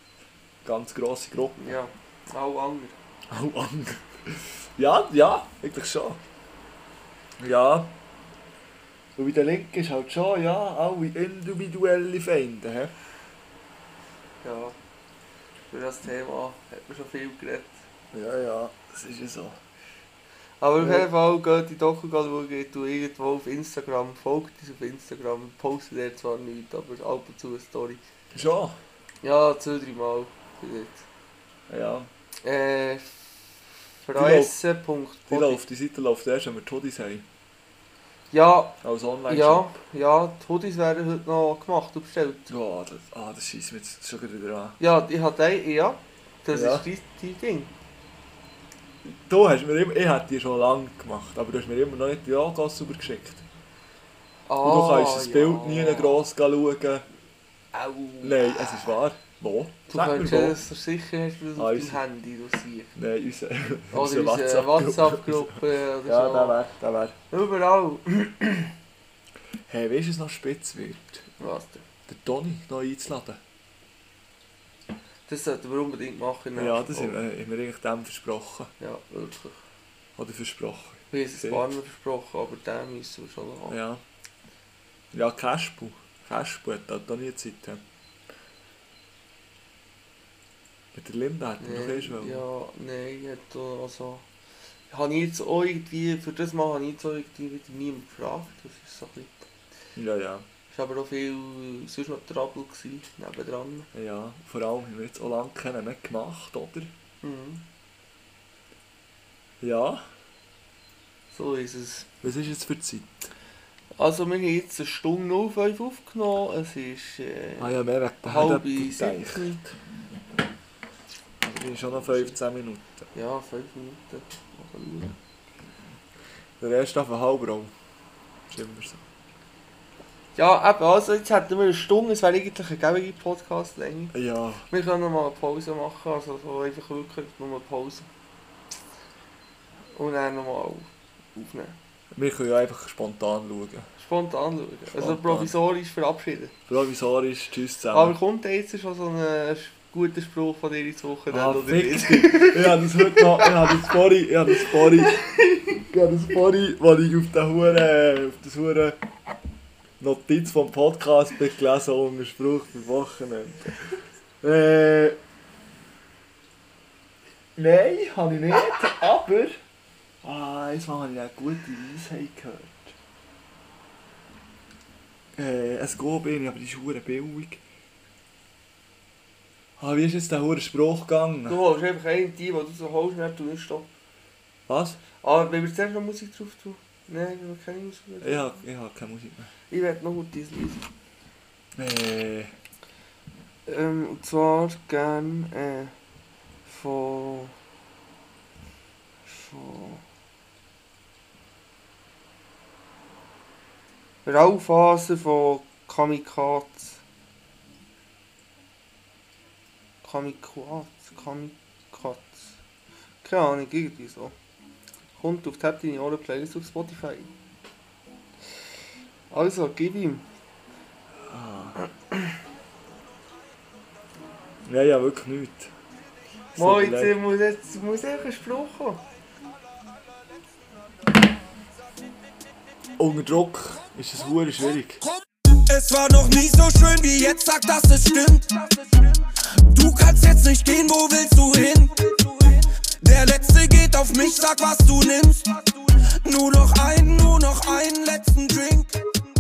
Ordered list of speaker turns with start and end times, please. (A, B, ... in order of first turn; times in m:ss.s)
0:00.6-0:01.8 A
0:01.6-0:03.0 B
0:03.3-0:06.2 A
0:07.4-0:08.0 A
0:09.2-0:13.0 A
0:14.4-0:14.8 B
0:15.7-0:17.8 B
0:18.1-0:19.6 A
0:20.6-0:28.0 B
0:20.8-0:21.1 A
0:28.3-0:28.8 A
0:29.2-0:31.1 B
0:31.7-0:32.1 A
0:32.4-0:33.2 B
0:34.0-0:35.6 B
0:34.2-0:34.6 A
0:35.3-0:37.3 A
0:38.3-0:42.5 B
0:38.8-0:39.8 A
0:42.5-0:44.8 A
0:44.8-0:47.7 B
0:46.5-0:46.9 A
0:49.3-0:53.4 A
0:54.5-0:56.2 B
0:54.6-0:57.1 A
0:57.7-0:58.9 B
0:58.2-1:00.6 A
0:59.9-1:02.9 B
1:01.6-1:02.0 A
1:03.0-1:07.2 A
1:03.9-1:06.6 B
1:07.3-1:08.7 B
1:09.7-1:11.3 A
1:11.4-1:11.8 B
1:12.1-1:13.4 A
1:15.3-1:17.2 B
1:16.6-1:18.7 A
1:18.8-1:19.6 B
1:20.2-1:21.7 A
1:21.1-1:23.8 B
1:23.7-1:24.0 A
1:25.1-1:27.8 A
1:30.9-1:32.4 A
1:31.6-1:34.2 B
1:34.9-1:39.3 B
1:40.0-1:40.5 A
1:40.7-1:43.9 B
1:43.9-1:46.9 A
1:47.2-1:47.6 B
1:49.6-1:50.1 A
1:51.3-1:52.1 B
1:52.2-1:53.3 A
1:54.0-1:59.6 B
1:57.6-1:59.7 A
2:01.4-2:03.1 A
2:01.9-2:02.4 B
2:03.1-2:05.2 B
2:06.6-2:07.7 A
2:08.5-2:09.0 A
2:10.4-2:14.2 B
2:14.1-2:14.7 A
2:14.7-2:18.1 B
2:19.9-2:21.8 B
2:22.1-2:23.9 A
2:24.0-2:26.5 B
2:25.0-2:25.6 A
2:26.7-2:28.2 A
2:27.9-2:33.7 B
2:31.3-2:35.2 A
2:35.0-2:35.6 B
2:35.8-2:39.0 A
2:40.0-2:45.2 A
2:47.6-2:49.6 A
2:50.2-2:53.0 A
2:55.4-2:57.6 A
2:59.8-3:01.6 A
3:01.5-3:03.9 B
3:04.7-3:05.0 A
3:05.2-3:08.6 B
3:08.2-3:09.5 A
3:09.7-3:10.9 B
3:11.8-3:12.5 A
3:13.7-3:15.9 B
3:16.7-3:17.5 B
3:19.2-3:20.0 B
3:24.3-3:27.0 B
3:30.0-3:32.5 B
3:33.2-3:34.4 B
3:35.2-3:37.3 B
3:39.3-3:40.2 B
3:41.3-3:41.8 A
3:44.6-3:45.7 A
3:46.6-3:47.2 A
3:46.6-3:49.0 B
3:53.0-3:55.0 A
3:55.7-4:09.0 C